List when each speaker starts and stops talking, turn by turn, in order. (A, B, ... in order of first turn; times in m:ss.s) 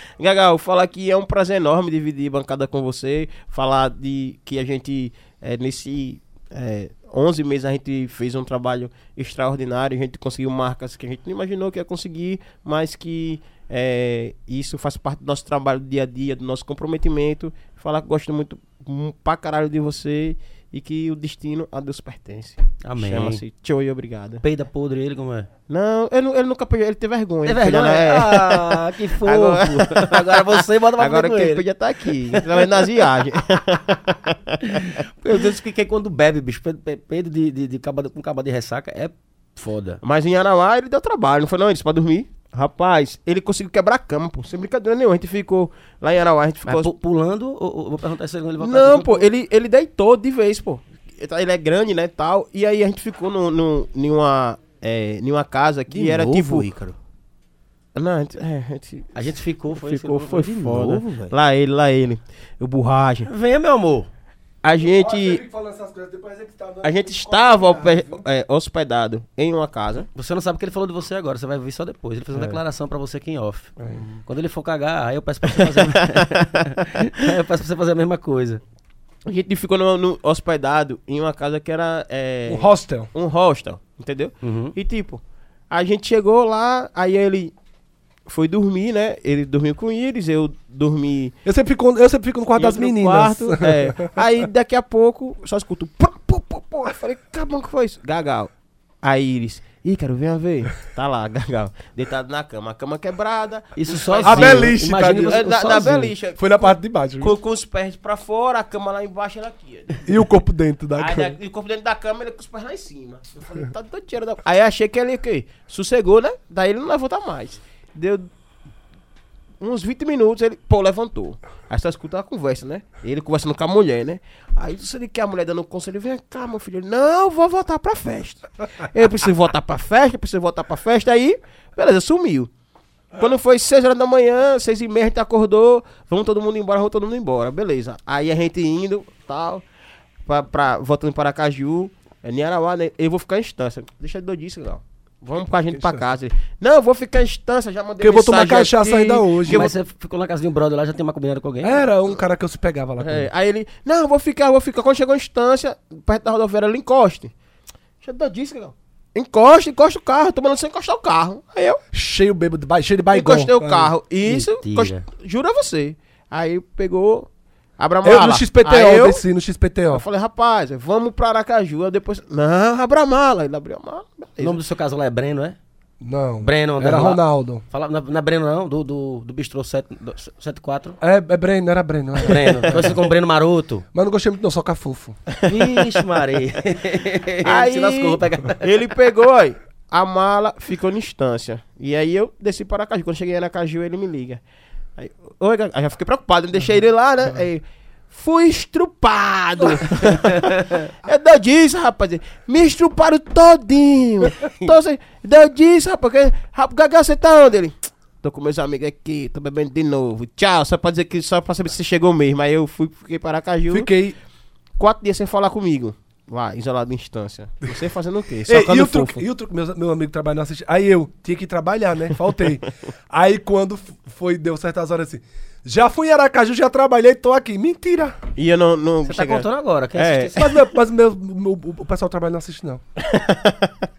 0:00.2-0:24.4 A
0:22.8-0:23.4 B
0:24.4-0:25.5 B
0:25.7-0:34.6 A
0:27.5-0:31.6 B
0:32.3-0:32.6 B
0:34.6-0:40.0 B
0:40.0-0:46.9 A
0:46.6-0:49.3 B
0:48.6-0:56.7 A
0:55.9-0:57.0 C
0:58.0-1:03.3 A
0:59.2-1:00.5 B
1:00.3-1:01.3 C
1:03.3-1:04.1 B
1:04.6-1:05.4 A
1:04.8-1:08.2 D
1:06.8-1:10.1 A
1:10.2-1:13.7 B
1:13.8-1:14.2 D
1:14.3-1:18.6 B
1:19.3-1:27.5 A
1:22.5-1:23.1 D
1:24.4-1:24.8 B
1:28.3-1:31.4 A
1:31.4-1:34.2 D
1:32.6-1:38.5 A
1:39.0-1:50.2 A
1:43.8-1:46.1 B
1:44.2-1:47.3 D
1:50.1-1:51.3 D
1:51.0-1:58.3 A
1:59.6-2:12.5 A
2:13.2-2:19.6 A
2:20.3-2:29.7 A
2:25.7-2:26.0 D
2:28.0-2:29.7 D
2:29.4-2:31.8 B
2:31.6-2:33.3 D
2:33.0-2:37.3 A
2:38.0-2:41.8 A
2:41.9-2:43.9 D
2:43.1-2:49.2 A
2:44.3-2:45.0 B
2:48.0-2:50.0 D
2:49.9-2:54.6 A
2:54.4-2:55.6 B
2:56.0-2:57.6 D
2:56.4-3:01.0 B
3:01.0-3:03.0 D
3:02.2-3:03.9 B
3:03.9-3:05.2 D
3:05.4-3:08.6 B
3:07.4-3:14.4 A
3:15.0-3:33.9 A
3:19.6-3:20.0 D
3:20.3-3:20.8 B
3:33.7-3:34.2 D
3:34.8-3:39.2 A
3:38.5-3:48.2 D
3:48.4-3:50.4 A
3:49.0-3:50.5 B
3:50.4-3:52.8 D
3:53.0-3:53.7 A